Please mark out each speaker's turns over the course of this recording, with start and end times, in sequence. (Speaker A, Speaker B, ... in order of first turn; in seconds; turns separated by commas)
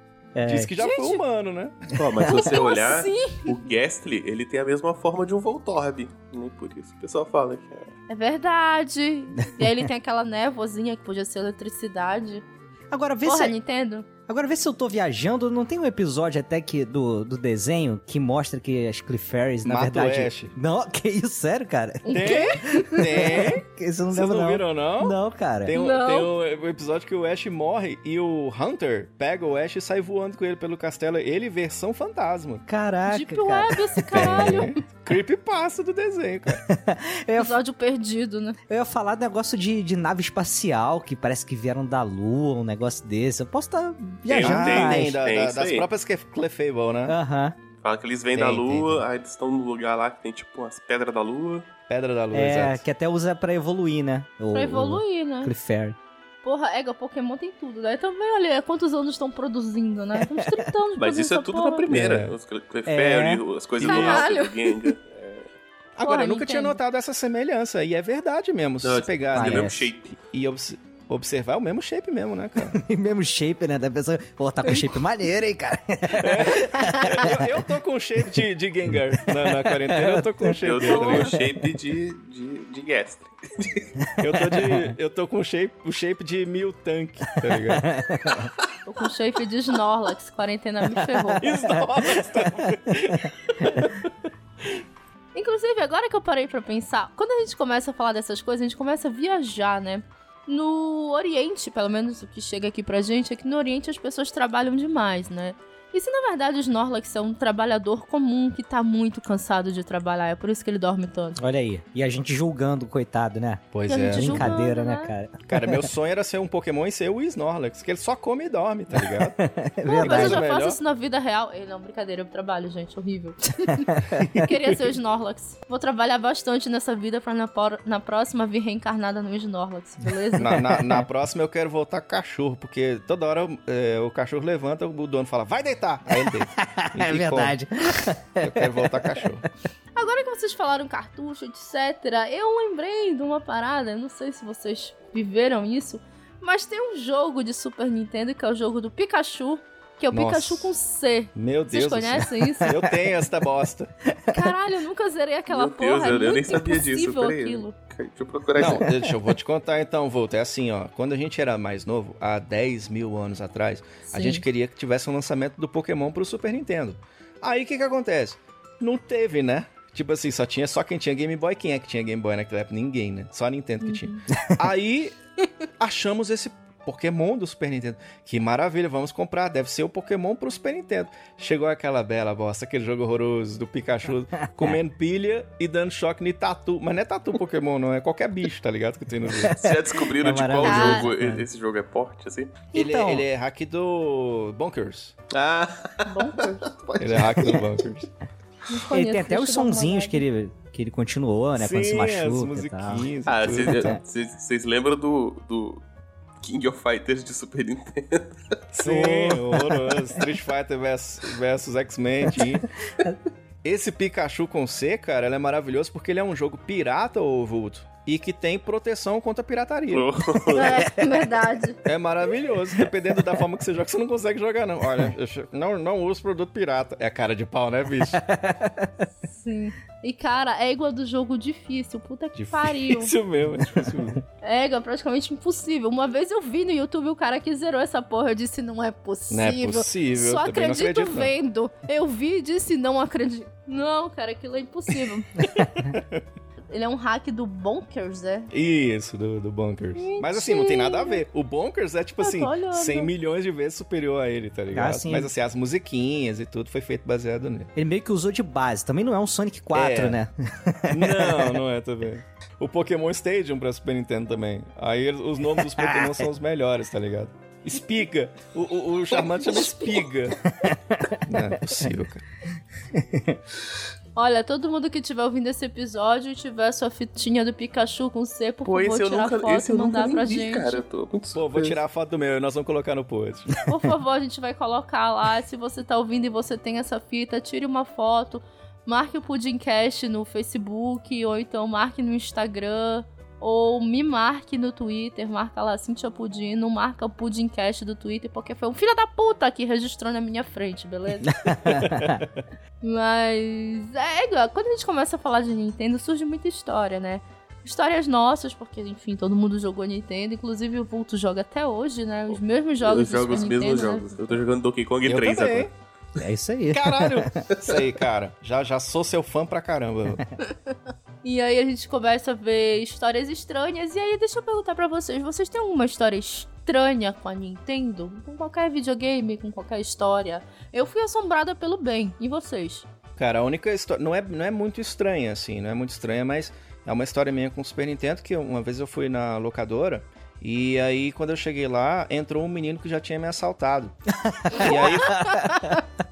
Speaker A: 0.3-0.7, Speaker B: 0.4-1.8, Speaker C: 0.8-1.2, Speaker A: 2.0-2.5, Speaker D: 2.0-7.9, Speaker C: 2.2-3.5, Speaker C: 8.1-12.4, Speaker A: 12.9-13.5, Speaker C: 13.2-14.1, Speaker A: 14.3-25.7, Speaker B: 19.6-20.5, Speaker C: 22.0-23.5, Speaker B: 22.1-32.6, Speaker C: 25.7-26.3, Speaker A: 32.7-34.6, Speaker C: 33.0-34.8, Speaker B: 34.1-36.6, Speaker A: 36.5-37.6, Speaker C: 37.4-38.6, Speaker A: 38.7-45.2, Speaker B: 44.2-47.1, Speaker D: 44.3-45.9, Speaker A: 47.1-47.5, Speaker D: 47.8-51.7, Speaker B: 48.3-49.0, Speaker B: 51.9-52.8, Speaker A: 52.3-56.0, Speaker C: 54.5-55.5, Speaker C: 56.4-61.9, Speaker A: 60.2-60.5, Speaker D: 61.0-65.0, Speaker B: 61.9-62.3, Speaker A: 62.9-63.4, Speaker C: 63.8-64.8, Speaker B: 63.8-64.2, Speaker B: 65.2-65.4, Speaker B: 66.0-72.8, Speaker C: 66.0-66.8, Speaker D: 68.8-70.1, Speaker A: 69.3-69.9, Speaker A: 72.6-77.6, Speaker C: 74.6-74.9, Speaker B: 76.2-81.3, Speaker A: 78.9-81.6, Speaker D: 80.6-83.9, Speaker C: 80.9-81.2, Speaker B: 84.2-87.9, Speaker A: 84.2-84.9, Speaker A: 87.4-88.5, Speaker C: 88.8-91.4, Speaker A: 91.0-93.3, Speaker B: 91.4-94.1, Speaker C: 95.3-111.4, Speaker A: 111.4-115.9, Speaker B: 113.7-114.5, Speaker C: 113.9-115.1, Speaker B: 115.5-119.4, Speaker A: 118.9-120.4, Speaker C: 119.8-130.7, Speaker B: 120.0-120.8, Speaker A: 123.9-124.4, Speaker A: 130.3-131.0, Speaker B: 130.3-137.6, Speaker A: 136.1-139.4, Speaker B: 138.4-139.4, Speaker C: 139.9-152.7, Speaker B: 150.1-150.7, Speaker B: 151.3-153.9, Speaker A: 152.7-153.1, Speaker A: 154.1-154.5, Speaker C: 154.3-157.7, Speaker D: 155.5-158.9, Speaker B: 158.6-175.1, Speaker A: 158.8-159.1, Speaker C: 164.1-164.4, Speaker C: 173.8-174.2, Speaker A: 174.4-174.7, Speaker B: 175.8-189.5, Speaker A: 184.4-184.8, Speaker A: 189.3-191.4, Speaker D: 189.5-192.6, Speaker C: 190.6-191.1, Speaker A: 192.7-193.3, Speaker B: 192.7-195.1, Speaker D: 195.3-197.9, Speaker C: 196.1-196.7, Speaker B: 197.0-198.1, Speaker C: 198.7-200.2, Speaker A: 198.9-203.1, Speaker B: 201.6-204.0, Speaker D: 203.2-205.8, Speaker D: 206.4-208.3, Speaker B: 208.7-212.7, Speaker A: 208.8-210.1, Speaker B: 213.6-220.1, Speaker D: 219.9-220.9, Speaker C: 220.5-221.8, Speaker B: 221.8-228.2, Speaker A: 228.0-228.9, Speaker C: 229.3-233.1, Speaker B: 232.3-234.2, Speaker C: 234.4-245.3, Speaker B: 239.3-241.3, Speaker B: 245.6-246.2, Speaker C: 246.7-248.5, Speaker B: 248.5-257.7, Speaker C: 249.9-251.2, Speaker C: 252.2-253.1, Speaker A: 254.7-255.3, Speaker A: 257.8-261.6, Speaker B: 259.7-260.2, Speaker B: 260.9-270.4, Speaker A: 265.7-266.3, Speaker D: 269.3-270.0, Speaker A: 270.5-271.9, Speaker B: 271.2-272.2, Speaker A: 272.9-273.4, Speaker C: 274.1-280.8, Speaker D: 278.6-281.8, Speaker B: 281.3-283.5, Speaker C: 283.6-301.4, Speaker A: 301.2-302.2, Speaker B: 301.8-302.2, Speaker C: 302.8-314.4, Speaker D: 312.8-315.7, Speaker B: 315.0-315.7, Speaker A: 316.2-317.3, Speaker B: 316.7-320.2, Speaker C: 321.2-332.9, Speaker B: 333.2-343.9, Speaker A: 344.2-345.7, Speaker B: 344.5-345.4, Speaker C: 345.3-345.7